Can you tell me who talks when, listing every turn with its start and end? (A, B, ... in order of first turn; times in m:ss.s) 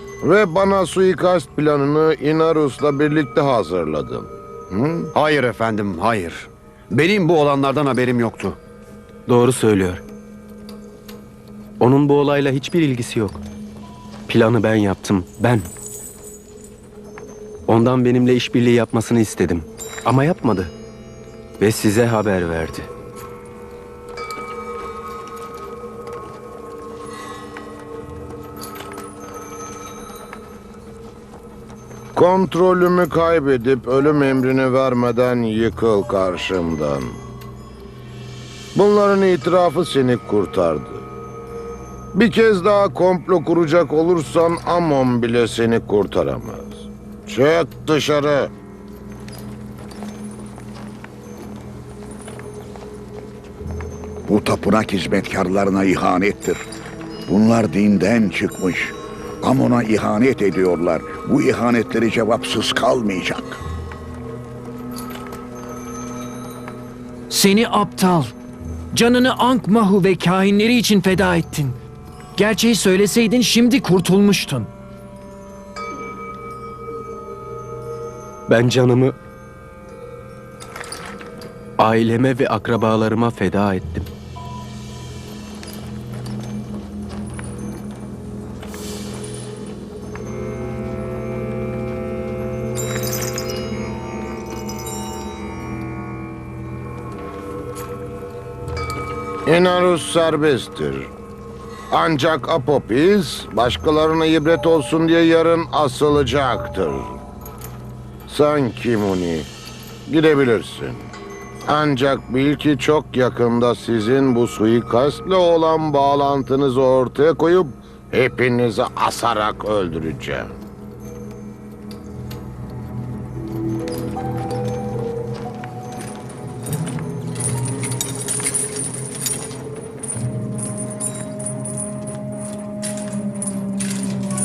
0:00.2-0:05.1 A
0:05.1-0:08.6 B
0:09.3-0:10.0 C
0:11.8-0:13.4 C
0:14.3-0:15.7 C
0:17.7-0:20.7 C
0:21.6-0:22.9 C
0:32.2-0:37.2 A
0:38.8-0:41.1 A
0:42.1-0:48.5 A
0:54.3-0:56.7 D
0:57.3-1:03.6 D
1:07.3-1:08.3 E
1:08.9-1:11.8 E
1:12.4-1:14.7 E
1:18.5-1:19.2 C
1:21.8-1:24.1 C
1:39.5-1:41.1 A
1:41.9-1:47.2 A
1:48.3-1:49.5 A
1:50.1-1:51.1 A
1:51.7-2:00.5 A